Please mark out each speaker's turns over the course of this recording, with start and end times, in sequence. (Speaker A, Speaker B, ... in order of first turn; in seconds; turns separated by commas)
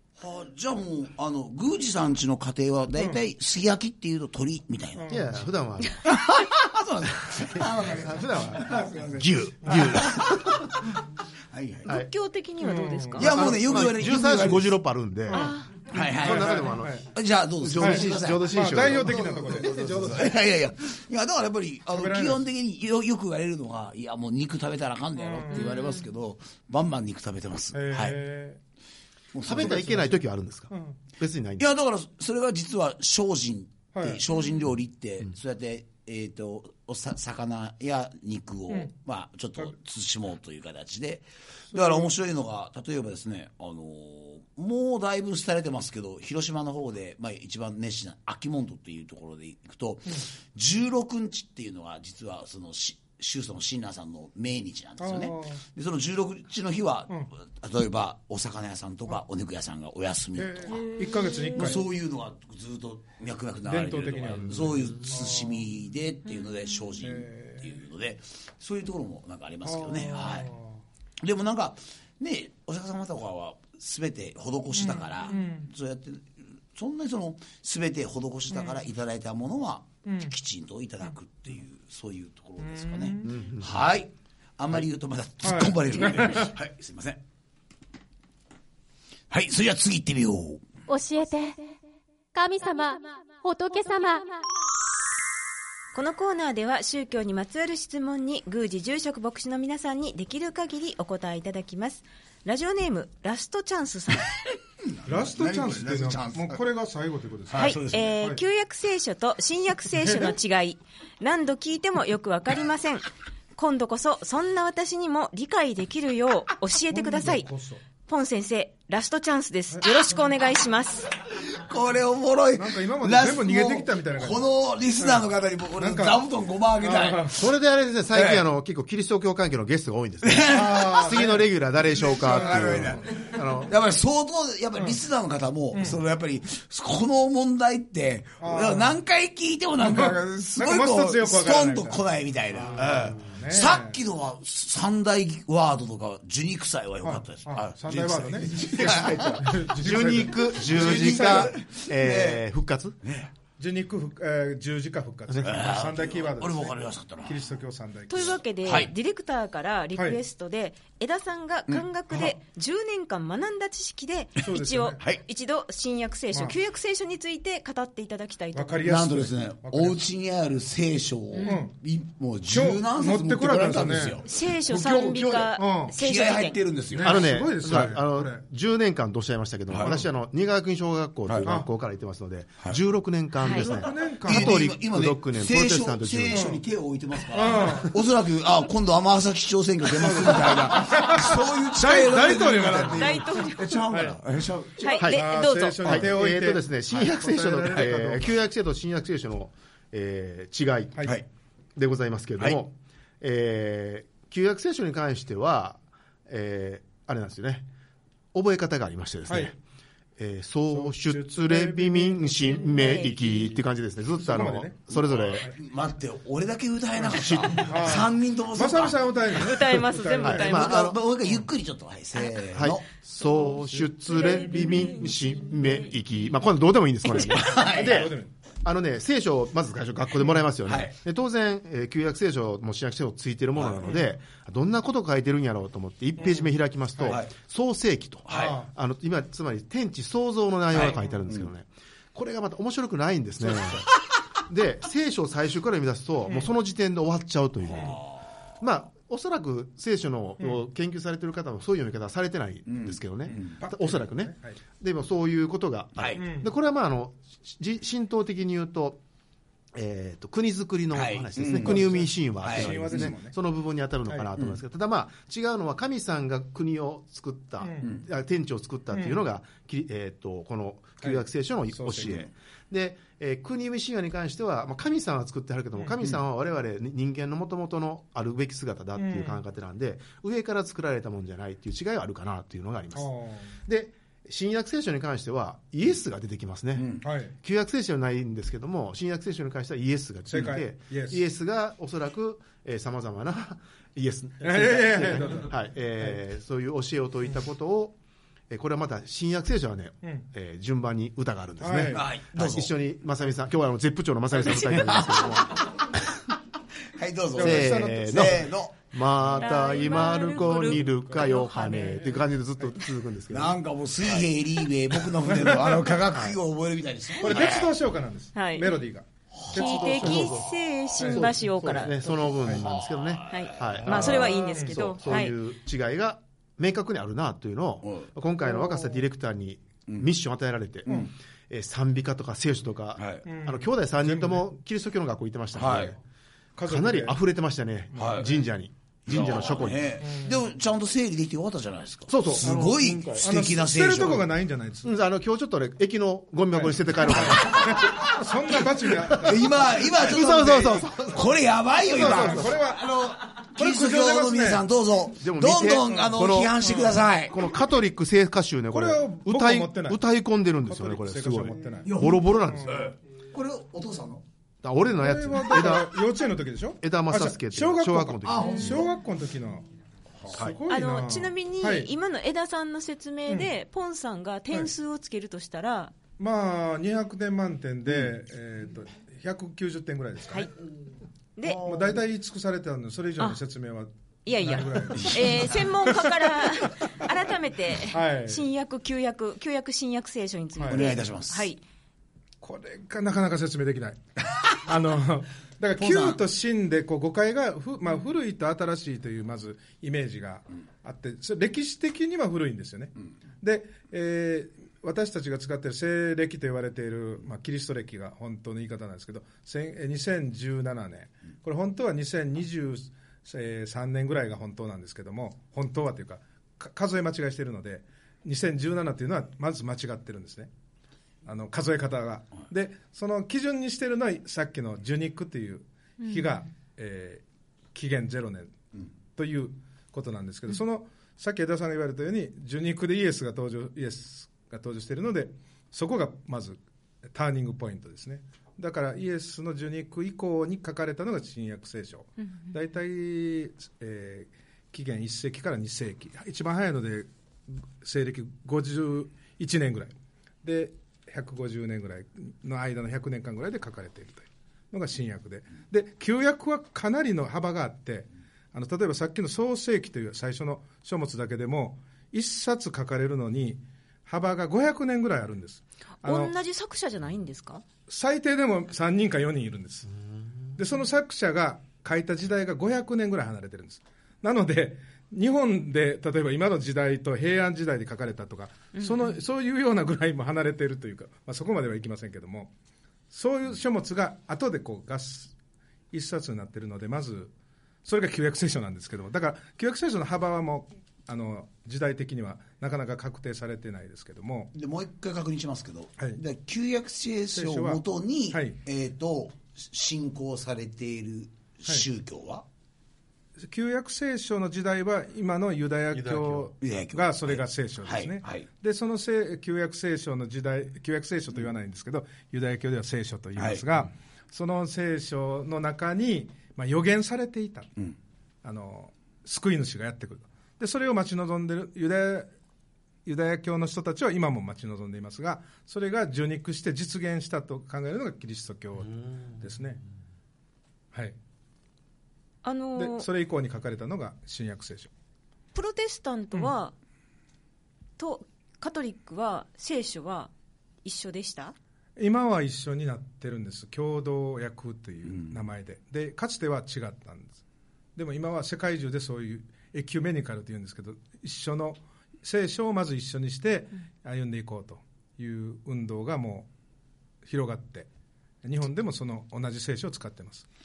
Speaker A: 0.2-5.1, Speaker B: 5.0-5.3, Speaker C: 5.1-6.0, Speaker A: 6.0-10.9, Speaker C: 7.5-10.9, Speaker B: 9.7-9.9, Speaker A: 11.5-11.9, Speaker D: 11.8-13.7, Speaker B: 12.6-13.4, Speaker A: 13.2-14.8, Speaker C: 13.2-17.0, Speaker B: 15.3-17.1, Speaker D: 15.3-15.8, Speaker A: 15.9-28.2, Speaker C: 17.6-19.7, Speaker B: 17.8-20.4, Speaker B: 21.9-22.4, Speaker B: 25.2-25.7, Speaker D: 25.5-26.0, Speaker B: 27.7-28.6, Speaker A: 29.3-30.2, Speaker C: 29.4-31.7, Speaker B: 29.5-30.1, Speaker B: 30.7-30.9, Speaker A: 31.6-60.9, Speaker B: 33.9-34.2, Speaker B: 41.7-42.1, Speaker B: 55.0-55.6, Speaker B: 60.4-61.8, Speaker D: 60.8-61.7, Speaker A: 61.5-70.5, Speaker B: 63.6-65.6, Speaker D: 66.3-66.6, Speaker B: 67.0-67.7, Speaker B: 69.6-70.8, Speaker A: 71.2-87.2, Speaker B: 74.8-75.7, Speaker B: 78.5-78.8, Speaker B: 80.0-80.3, Speaker B: 82.6-83.3, Speaker C: 83.2-83.8, Speaker B: 85.4-86.5, Speaker A: 89.3-90.6, Speaker E: 90.9-91.7, Speaker E: 92.3-94.4, Speaker D: 95.9-104.3, Speaker A: 104.8-106.6, Speaker B: 105.1-108.4, Speaker A: 107.5-107.8, Speaker D: 107.5-117.5, Speaker B: 109.9-110.3, Speaker B: 116.9-117.8, Speaker D: 118.1-121.1, Speaker A: 121.3-127.3, Speaker B: 122.5-124.5, Speaker B: 125.0-125.2, Speaker B: 125.8-126.2, Speaker B: 126.8-127.4, Speaker C: 127.3-133.7, Speaker A: 128.1-128.4, Speaker A: 130.2-131.2, Speaker B: 130.5-131.4, Speaker A: 132.0-149.6, Speaker B: 132.1-133.2, Speaker B: 135.7-136.0, Speaker B: 138.4-139.0, Speaker B: 139.8-142.0, Speaker B: 142.6-144.0, Speaker C: 142.9-143.4, Speaker B: 147.0-151.5, Speaker C: 148.8-153.0, Speaker A: 150.5-152.4, Speaker A: 153.0-153.3, Speaker B: 153.6-158.4, Speaker A: 155.4-157.4, Speaker D: 158.1-168.9, Speaker A: 158.2-158.9, Speaker A: 161.7-162.3, Speaker B: 164.4-165.0, Speaker B: 168.5-170.0, Speaker A: 168.8-177.9, Speaker D: 171.3-171.6, Speaker B: 171.4-171.7, Speaker B: 172.5-174.2, Speaker D: 174.2-176.6, Speaker B: 175.6-175.9, Speaker B: 176.9-178.4, Speaker C: 177.0-186.6, Speaker A: 179.7-180.0, Speaker D: 183.4-183.7, Speaker B: 183.5-184.6, Speaker A: 184.2-195.1, Speaker B: 186.3-186.6, Speaker B: 187.3-188.0, Speaker B: 189.9-193.3, Speaker D: 193.0-193.8, Speaker B: 193.9-194.2, Speaker D: 194.8-196.0, Speaker C: 194.9-201.1, Speaker B: 195.1-198.2, Speaker C: 201.8-207.7, Speaker C: 208.3-209.6, Speaker B: 209.3-209.5, Speaker C: 210.2-215.5, Speaker B: 210.7-213.6, Speaker D: 212.7-213.1, Speaker B: 214.2-214.8, Speaker A: 214.9-219.1, Speaker C: 217.1-217.7, Speaker B: 217.6-221.4, Speaker D: 219.3-220.9, Speaker C: 220.2-221.0, Speaker A: 220.4-222.8, Speaker C: 222.5-243.9, Speaker B: 223.4-224.5, Speaker D: 224.1-225.7, Speaker A: 227.3-228.1, Speaker B: 227.6-228.3, Speaker A: 230.6-230.9, Speaker A: 233.6-234.0, Speaker B: 236.2-236.5, Speaker A: 237.0-237.3, Speaker A: 238.3-238.6, Speaker B: 238.3-238.7, Speaker A: 240.7-241.5, Speaker B: 243.4-243.8, Speaker C: 244.4-248.0, Speaker A: 247.7-248.2, Speaker C: 248.6-259.0, Speaker A: 252.7-253.6, Speaker B: 253.3-254.6, Speaker A: 255.9-256.2, Speaker B: 256.2-256.5, Speaker C: 259.7-298.0, Speaker A: 260.9-263.1, Speaker B: 261.5-263.3, Speaker B: 268.9-269.2, Speaker B: 271.0-272.2, Speaker B: 275.8-276.1, Speaker B: 278.9-279.4, Speaker B: 282.9-283.5, Speaker A: 286.8-287.0, Speaker B: 287.0-287.3, Speaker B: 290.3-291.2, Speaker B: 294.4-295.6, Speaker C: 298.5-305.8, Speaker B: 301.6-302.1, Speaker A: 301.9-302.7, Speaker A: 304.5-306.0, Speaker A: 306.9-308.7, Speaker B: 307.4-308.4, Speaker C: 307.4-313.6, Speaker B: 309.3-312.0, Speaker D: 309.4-312.1, Speaker A: 313.3-317.7, Speaker B: 315.3-315.8, Speaker C: 316.1-316.4, Speaker B: 317.2-320.3, Speaker D: 318.3-318.9, Speaker D: 319.5-321.9, Speaker C: 319.5-336.0, Speaker B: 321.0-321.3, Speaker B: 322.2-322.6, Speaker A: 322.5-324.1, Speaker D: 323.3-325.4, Speaker B: 323.8-324.9, Speaker A: 333.0-333.2, Speaker B: 333.2-334.5, Speaker A: 335.5-335.9, Speaker B: 336.6-337.1, Speaker C: 336.6-340.0, Speaker A: 337.9-338.3, Speaker B: 338.0-338.4, Speaker A: 339.1-344.3, Speaker B: 340.0-340.4, Speaker C: 342.1-343.2, Speaker B: 342.4-344.9, Speaker C: 344.8-348.0, Speaker B: 346.5-350.6, Speaker A: 347.0-348.6, Speaker C: 349.1-352.6, Speaker A: 349.1-357.4, Speaker B: 351.8-354.6, Speaker C: 355.1-362.9, Speaker B: 355.9-357.0, Speaker B: 358.7-360.0, Speaker B: 360.6-362.8, Speaker A: 361.8-364.2, Speaker C: 364.6-366.0, Speaker B: 364.9-369.6, Speaker C: 366.8-368.9, Speaker A: 368.2-368.8, Speaker A: 370.2-370.6, Speaker B: 370.3-371.9, Speaker D: 370.7-375.9, Speaker B: 376.2-380.5, Speaker D: 381.4-381.9, Speaker A: 381.4-382.0, Speaker B: 381.5-387.1, Speaker D: 384.2-391.6, Speaker A: 384.9-385.4, Speaker B: 387.9-388.4, Speaker B: 390.6-390.9, Speaker A: 390.7-391.5, Speaker B: 392.4-420.5, Speaker A: 395.8-396.2, Speaker B: 421.2-428.5, Speaker D: 426.0-426.3, Speaker B: 429.1-436.6, Speaker B: 437.1-466.3, Speaker D: 442.2-442.5, Speaker D: 466.0-467.6, Speaker B: 467.9-469.9, Speaker B: 470.6-482.5, Speaker D: 478.7-479.2, Speaker B: 483.1-485.3, Speaker B: 485.9-487.3, Speaker B: 487.8-494.5, Speaker A: 494.5-502.4, Speaker B: 497.3-498.6, Speaker B: 503.4-517.7, Speaker C: 505.9-506.5, Speaker A: 506.6-508.5, Speaker A: 513.4-513.6, Speaker B: 518.4-522.3, Speaker B: 523.0-529.8, Speaker D: 532.4-533.1, Speaker B: 532.8-534.9, Speaker D: 535.5-536.7, Speaker D: 538.0-540.3, Speaker D: 540.8-541.5, Speaker B: 542.0-547.4, Speaker A: 545.1-545.4, Speaker B: 547.9-556.5, Speaker B: 557.2-557.9, Speaker B: 558.4-560.5